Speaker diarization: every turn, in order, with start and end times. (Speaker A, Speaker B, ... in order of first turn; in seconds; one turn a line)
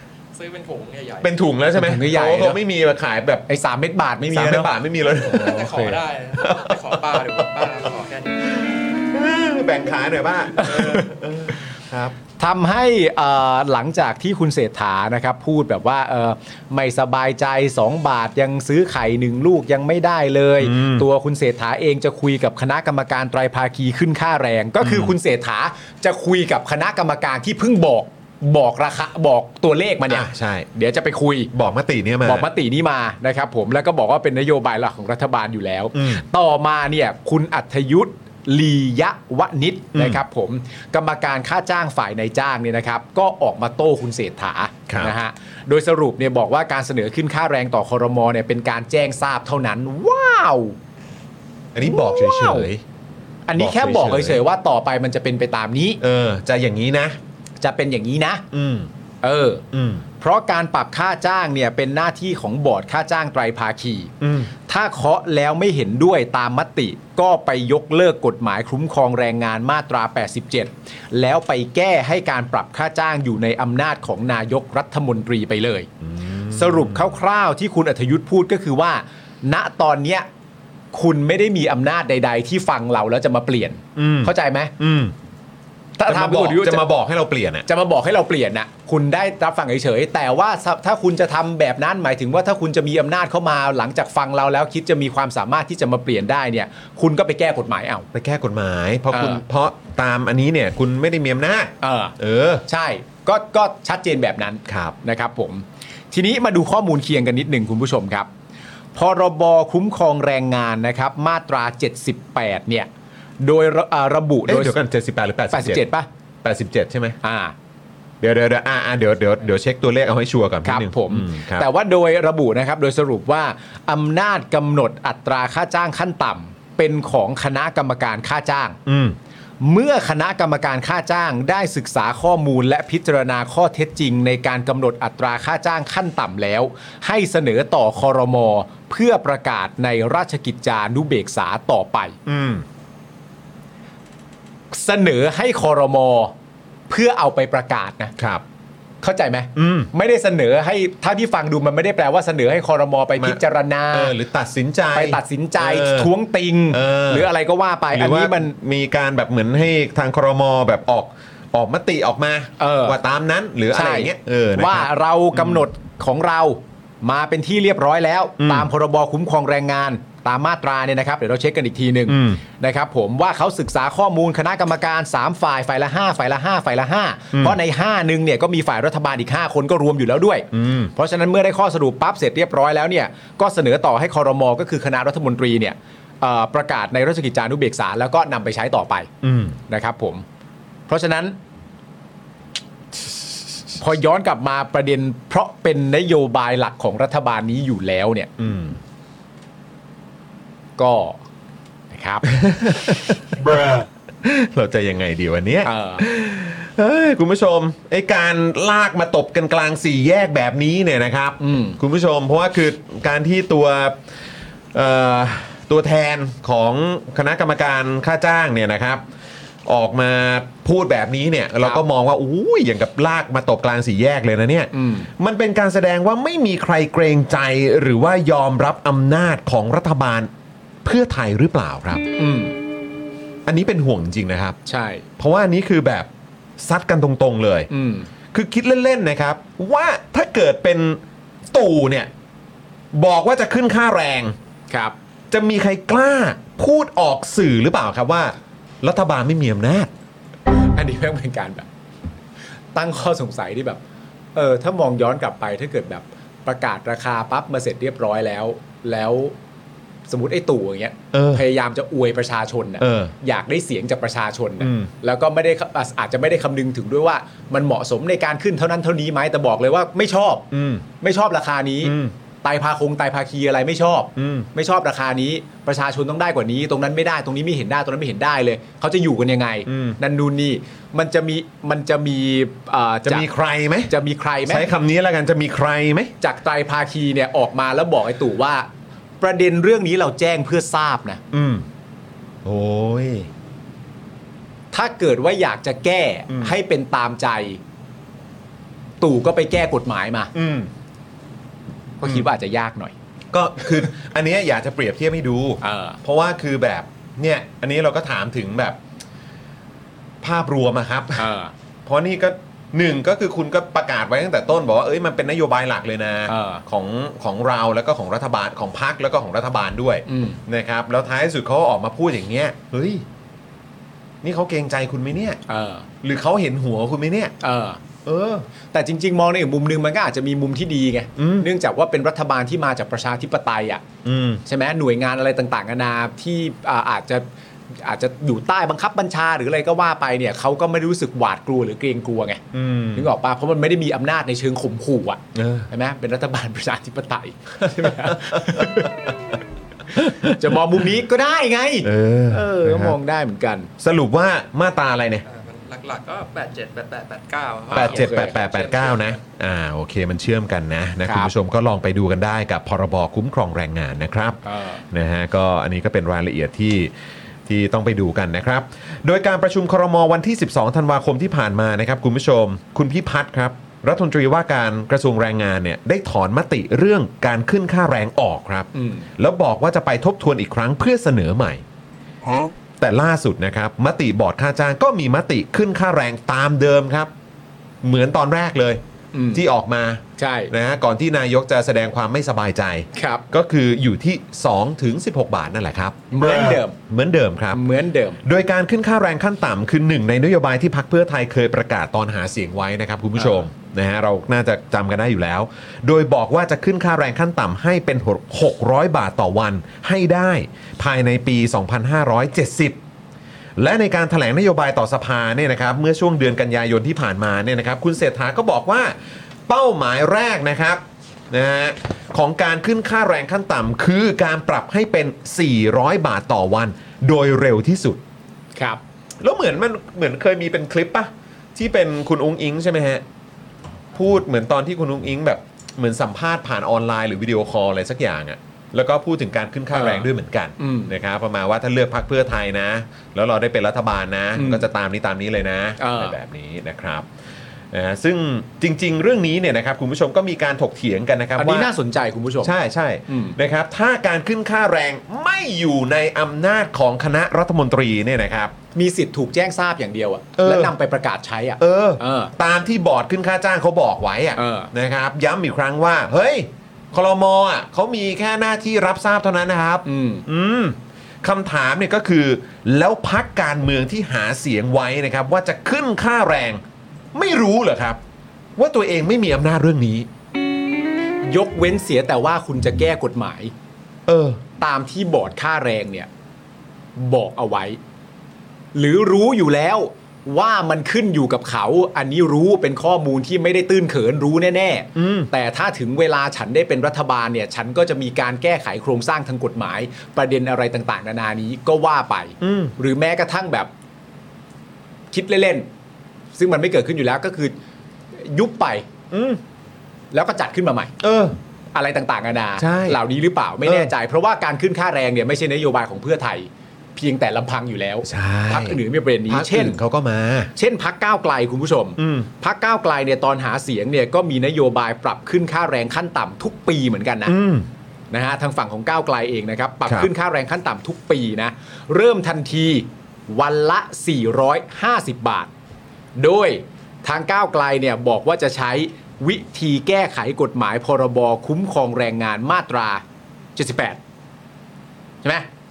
Speaker A: 0.3-1.3
Speaker B: 1.2-3.5
Speaker C: 1.7-2.6
Speaker C: 3.5-6.0
Speaker B: 4.3-5.8
Speaker A: 5.3-8.4
Speaker B: 6.3-7.9
Speaker B: 8.4-12.1
Speaker C: 10.6-11.1
Speaker C: 12.4-31.5
Speaker B: 20.6-21.1
Speaker B: 24.8-25.1
Speaker B: 30.1-30.7
Speaker B: 31.5-32.5
Speaker C: 32.2-50.8
Speaker B: 35.9-36.2
Speaker B: 39.9-40.2
Speaker B: 44.9-45.1
Speaker B: 51.7-52.8
Speaker C: 51.8-52.7
Speaker C: 53.5-56.0
Speaker B: 53.5-54.4
Speaker B: 56.0-57.2
Speaker C: 57.6-58.5
Speaker B: 58.5-58.9
Speaker C: 59.2-59.6
Speaker B: 59.7-60.0
Speaker C: 60.2-64.1
Speaker B: 64.2-64.5
Speaker C: 64.7-75.9
Speaker B: 76.0-77.2
Speaker C: 76.5-80.3
Speaker C: 80.9-84.7
Speaker B: 84.0-85.1
Speaker C: 86.0-86.8
Speaker B: 86.0-87.7
Speaker C: 87.7-98.1
Speaker B: 98.1-102.6
Speaker C: 99.1-99.4
Speaker C: 101.8-102.1
Speaker C: 102.7-108.3
Speaker B: 104.7-105.0
Speaker C: 108.9-112.9
Speaker C: 113.4-114.8
Speaker B: 114.5-115.9
Speaker C: 115.5-116.1
Speaker B: 116.4-117.2
Speaker C: 117.2-117.5
Speaker B: 118.2-121.7
Speaker C: 120.6-128.8
Speaker B: 128.8-129.2
Speaker C: 129.6-142.2
Speaker B: 142.2-142.7
Speaker C: 144.7-146.3
Speaker C: 146.9-148.1
Speaker B: 148.2-148.4
Speaker C: 149.0-154.1
Speaker B: 149.5-149.9
Speaker B: 153.2-156.1
Speaker C: 154.9-158.5
Speaker B: 156.7-157.3
Speaker B: 157.9-165.6
Speaker C: 162.6-163.0
Speaker C: 163.7-189.1
Speaker B: 168.4-168.7
Speaker B: 172.1-172.4
Speaker B: 180.5-180.9
Speaker B: 189.2-189.6
Speaker C: 189.7-190.2
Speaker C: 190.9-191.4
Speaker C: 193.8-198.3
Speaker B: 198.4-198.8
Speaker C: 200.8-201.2
Speaker C: 201.9-202.3
Speaker B: 202.2-214.0
Speaker C: 205.6-206.0
Speaker C: 211.4-211.8
Speaker B: 214.7-219.0
Speaker B: 219.6-230.3
Speaker C: 224.7-225.1
Speaker B: 230.8-232.1
Speaker C: 232.2-232.6
Speaker B: 233.4-234.6
Speaker C: 234.7-235.0
Speaker B: 235.2-237.7
Speaker C: 237.7-238.1
Speaker B: 238.3-242.1
Speaker B: 242.9-244.3
Speaker C: 244.7-244.9
Speaker B: 245.3-249.9
Speaker C: 250.5-251.7
Speaker C: 252.7-253.8
Speaker C: 254.3-259.4
Speaker C: 260.1-270.5
Speaker B: 261.1-261.4
Speaker B: 262.8-263.1
Speaker B: 264.6-264.9
Speaker B: 270.5-270.8
Speaker C: 271.0-283.3
Speaker B: 271.8-272.1
Speaker B: 274.1-274.5
Speaker B: 279.7-280.0
Speaker B: 283.1-283.9
Speaker C: 283.9-284.7
Speaker B: 284.5-286.1
Speaker C: 286.2-288.7
Speaker C: 289.2-291.2
Speaker B: 291.3-291.6
Speaker B: 292.4-293.3
Speaker C: 294.7-297.6
Speaker B: 296.3-296.5
Speaker C: 299.0-300.3
Speaker B: 300.3-300.7
Speaker C: 302.0-302.9
Speaker B: 303.3-308.8
Speaker C: 305.6-306.0
Speaker B: 310.2-311.3
Speaker C: 311.2-311.5
Speaker B: 311.9-323.0
Speaker C: 316.3-316.6
Speaker C: 320.1-320.4
Speaker B: 324.2-325.4
Speaker C: 325.5-325.9
Speaker B: 326.0-327.3
Speaker C: 327.4-327.8
Speaker B: 328.0-328.5
Speaker C: 328.7-333.8
Speaker B: 331.2-331.5
Speaker B: 334.0-334.4
Speaker C: 334.4-342.4
Speaker B: 342.5-343.1
Speaker C: 342.9-349.0
Speaker B: 345.3-345.7
Speaker B: 347.6-349.1
Speaker B: 349.9-350.5
Speaker C: 349.9-353.7
Speaker B: 351.8-353.0
Speaker B: 353.8-355.2
Speaker A: 355.2-359.2
Speaker C: 357.7-358.4
Speaker B: 357.7-366.9
Speaker C: 361.0-361.3
Speaker C: 364.4-364.8
Speaker B: 367.4-381.6
Speaker C: 378.7-379.1
Speaker B: 382.8-387.1
Speaker B: 387.8-388.8
Speaker C: 389.1-389.4
Speaker B: 389.3-397.6
Speaker C: 390.2-390.5
Speaker C: 392.9-393.2
Speaker C: 396.1-396.8
Speaker C: 397.5-398.2
Speaker B: 398.2-412.8
Speaker C: 403.2-403.4
Speaker B: 413.6-418.9
Speaker B: 419.5-428.0
Speaker C: 428.5-428.8
Speaker B: 429.2-433.0
Speaker B: 433.9-447.1
Speaker C: 439.7-440.9
Speaker C: 444.4-444.7
Speaker C: 445.8-446.2
Speaker B: 447.7-451.7
Speaker C: 451.4-452.5
Speaker B: 452.4-458.5
Speaker C: 453.1-453.4
Speaker C: 458.7-462.3
Speaker B: 460.4-460.7
Speaker B: 461.6-476.6
Speaker C: 464.4-464.7
Speaker C: 469.8-470.2
Speaker B: 477.1-478.0
Speaker B: 478.6-480.1
Speaker C: 481.2-483.5
Speaker B: 484.1-484.4
Speaker C: 484.6-486.1
Speaker C: 486.9-487.8
Speaker C: 488.7-503.7
Speaker B: 494.9-495.3
Speaker B: 502.4-502.7
Speaker C: 505.1-505.7
Speaker C: 506.3-507.5
Speaker C: 508.1-508.9
Speaker B: 509.1-509.4
Speaker C: 510.1-510.9
Speaker B: 511.0-511.4
Speaker C: 511.7-519.8
Speaker B: 512.6-513.0
Speaker B: 513.6-513.9
Speaker B: 518.0-520.5
Speaker C: 520.5-527.3
Speaker B: 522.0-522.3
Speaker B: 527.2-527.7
Speaker C: 528.1-535.5
Speaker C: 536.2-543.0
Speaker C: 543.5-544.0
Speaker C: 545.2-545.5